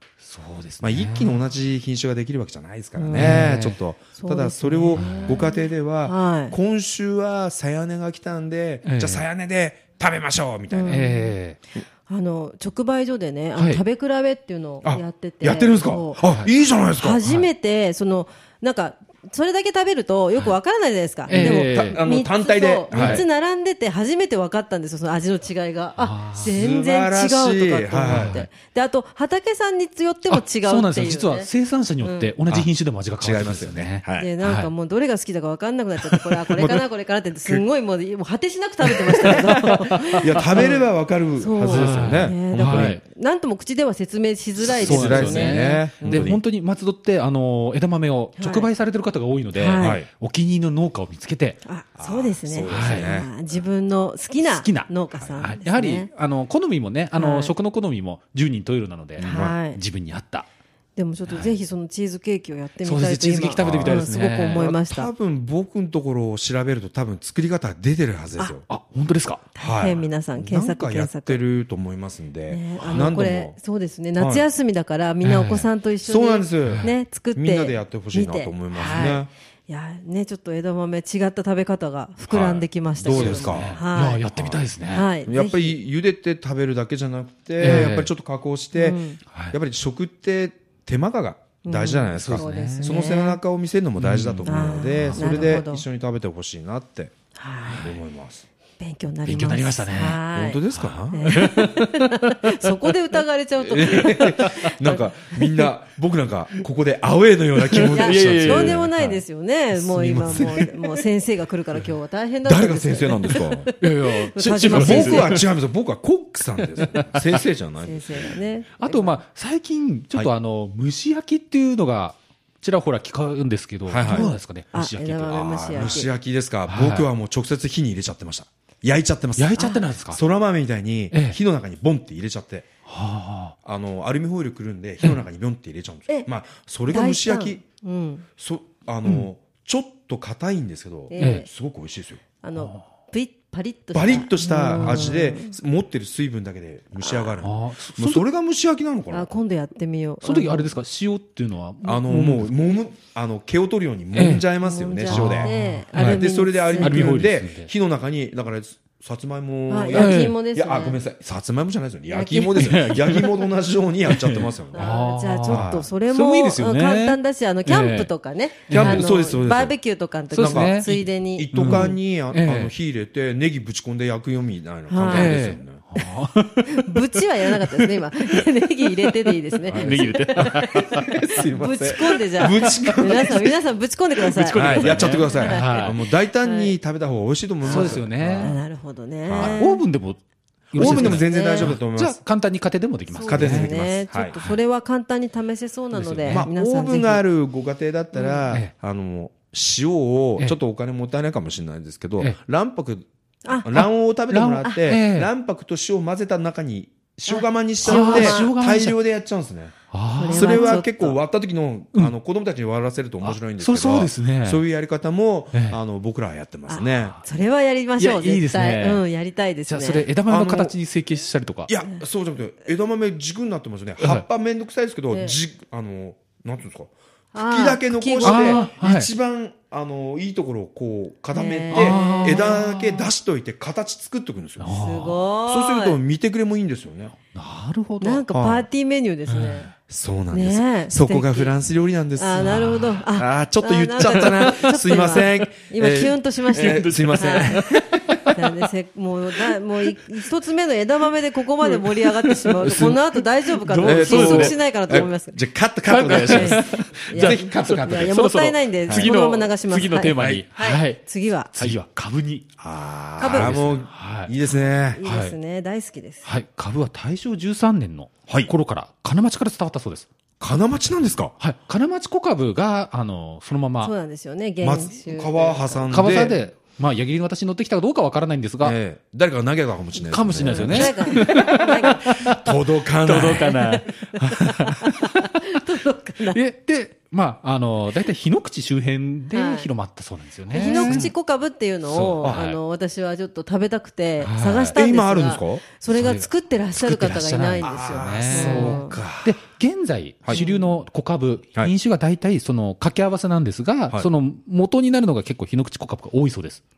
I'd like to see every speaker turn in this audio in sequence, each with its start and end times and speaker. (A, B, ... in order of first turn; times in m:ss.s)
0:00.2-0:01.4 A
0:00.8-0:11.1 B
0:03.0-0:03.5 C
0:03.1-0:03.8 A
0:04.2-0:06.6 C
0:04.9-0:05.4 A
0:08.8-0:09.2 A
0:10.7-0:11.3 C
0:10.9-0:11.6 A
0:12.1-0:16.2 C
0:13.6-0:13.8 A
0:14.8-0:17.2 B
0:16.2-0:16.5 A
0:17.0-0:31.5 C
0:21.3-0:22.0 A
0:21.3-0:23.2 B
0:22.9-0:23.2 A
0:26.0-0:26.5 A
0:26.4-0:28.4 B
0:28.0-0:28.5 A
0:30.3-0:34.7 A
0:32.0-0:32.3 C
0:33.2-0:34.3 B
0:34.2-0:40.8 C
0:39.1-0:40.7 A
0:40.1-0:43.0 B
0:41.4-0:46.4 C
0:41.6-0:43.0 A
0:44.6-0:46.4 B
0:44.6-0:51.6 A
0:48.4-0:48.7 C
0:49.5-0:50.0 C
0:49.8-0:50.1 B
0:51.6-0:56.1 C
0:52.0-0:53.3 B
0:52.6-0:53.2 A
0:54.4-1:00.5 A
0:57.2-0:57.5 C
0:59.2-0:59.5 B
0:59.2-0:59.8 C
1:01.0-1:05.1 C
1:02.8-1:04.6 A
1:03.5-1:08.6 B
1:08.7-1:09.4 A
1:09.5-1:11.4 C
1:09.6-1:13.6 B
1:12.5-1:24.2 C
1:12.8-1:13.1 A
1:14.2-1:14.4 B
1:15.2-1:15.7 A
1:16.0-1:19.3 B
1:16.6-1:16.9 A
1:18.7-1:19.1 A
1:22.3-1:24.6 B
1:23.0-1:25.1 A
1:24.9-1:25.8 C
1:25.3-1:37.1 B
1:27.6-1:28.1 A
1:28.7-1:29.2 C
1:29.3-1:29.6 A
1:31.6-1:33.4 C
1:32.1-1:32.9 A
1:34.0-1:35.6 A
1:34.4-1:35.8 C
1:37.3-1:37.9 C
1:37.6-1:37.9 A
1:37.8-1:38.4 B
1:38.8-1:45.0 C
1:39.2-1:42.9 A
1:40.3-1:41.4 B
1:43.6-1:48.9 B
1:43.8-1:44.8 A
1:45.3-1:45.7 A
1:47.6-1:49.2 A
1:47.9-1:55.4 C
1:49.8-1:50.6 B
1:50.1-1:50.7 A
1:52.4-1:53.7 B
1:53.8-1:55.4 A
1:54.7-1:58.3 B
1:56.7-1:57.4 A
1:57.8-1:59.2 C
1:58.8-2:06.0 A
2:03.9-2:04.3 B
2:04.0-2:06.1 C
2:05.3-2:12.7 B
2:06.7-2:07.1 A
2:09.4-2:10.2 A
2:09.6-2:09.8 C
2:11.1-2:11.4 A
2:12.8-2:13.5 A
2:13.6-2:17.6 B
2:16.9-2:18.2 C
2:18.4-2:22.2 B
2:21.1-2:21.5 C
2:21.2-2:21.4 A
2:22.4-2:25.6 C
2:22.6-2:22.8 A
2:23.9-2:29.3 B
2:24.7-2:25.2 A
2:27.0-2:27.3 C
2:27.4-2:28.2 A
2:29.1-2:30.7 C
2:30.2-2:32.5 A
2:31.8-2:44.9 B
2:34.1-2:34.5 A
2:34.6-2:37.1 C
2:35.0-2:36.2 A
2:36.8-2:37.7 A
2:39.7-2:41.0 C
2:39.9-2:40.3 A
2:42.1-2:42.6 C
2:42.3-2:43.4 A
2:44.0-2:48.1 A
2:44.7-2:52.0 C
2:45.5-2:45.9 B
2:48.7-2:49.1 A
2:48.7-2:49.8 B
2:50.3-2:52.7 A
2:50.4-2:55.8 B
2:54.9-2:55.4 C
2:55.1-2:58.4 A
2:56.7-3:06.7 C
2:59.7-3:01.4 A
2:59.7-3:03.5 B
3:02.4-3:03.4 A
3:04.2-3:06.0 A
3:04.5-3:08.6 B
3:07.6-3:08.6 A
3:07.6-3:09.8 C
3:09.3-3:09.6 B
3:09.3-3:10.2 A
3:10.7-3:14.6 A
3:10.7-3:12.2 B
3:10.8-3:11.7 C
3:13.1-3:17.2 C
3:13.2-3:14.3 B
3:15.9-3:16.5 A
3:16.2-3:23.1 B
3:18.1-3:18.4 C
3:23.4-3:23.8 C
3:23.6-3:29.7 B
3:23.7-3:25.3 A
3:27.3-3:28.5 C
3:27.8-3:29.0 A
3:29.9-3:31.1 A
3:30.2-3:30.9 C
3:30.3-3:37.2 B
3:33.2-3:34.6 A
3:35.5-3:35.8 A
3:36.7-3:40.1 C
3:38.0-3:39.0 A
3:39.7-3:41.7 A
3:40.3-3:40.7 B
3:41.7-3:54.7 B
3:44.0-3:44.2 A
3:45.1-3:45.4 C
3:47.3-3:48.7 C
3:48.2-3:49.1 A
3:51.3-3:52.6 C
3:51.7-3:53.1 A
3:54.6-3:55.2 A
3:54.7-3:56.0 C
3:55.4-3:57.2 B
3:57.3-3:58.2 A
3:58.0-3:59.7 C
3:58.3-3:58.7 B
3:59.3-3:59.7 A
3:59.9-4:07.8 B
4:00.3-4:01.5 C
4:02.2-4:07.8 C
4:02.4-4:03.0 A
4:04.0-4:05.3 A
4:06.5-4:08.6 A
4:08.3-4:15.3 C
4:11.6-4:13.0 A
4:12.6-4:13.0 B
4:13.6-4:14.6 A
4:13.8-4:18.2 B
4:15.8-4:21.0 A
4:16.1-4:21.5 C
4:20.2-4:20.4 B
4:21.5-4:22.6 A
4:22.6-4:25.0 B
4:23.2-4:23.5 C
4:23.2-4:24.3 A
4:24.9-4:26.2 C
4:25.0-4:25.3 A
4:26.2-4:30.1 A
4:30.4-4:31.3 B
4:31.4-4:33.9 A
4:33.8-4:35.9 C
4:34.6-4:36.4 B
4:35.9-4:38.8 A
4:38.6-4:43.6 B
4:40.0-4:45.6 A
4:40.4-4:42.3 C
4:43.2-4:46.4 C
4:46.3-4:51.1 A
4:49.3-4:49.7 C
4:50.5-4:59.0 C
4:50.6-4:51.1 B
4:51.9-4:52.6 A
4:54.2-4:54.8 A
4:54.7-4:55.6 B
4:55.9-5:06.6 A
4:57.6-4:59.4 B
5:00.3-5:00.7 C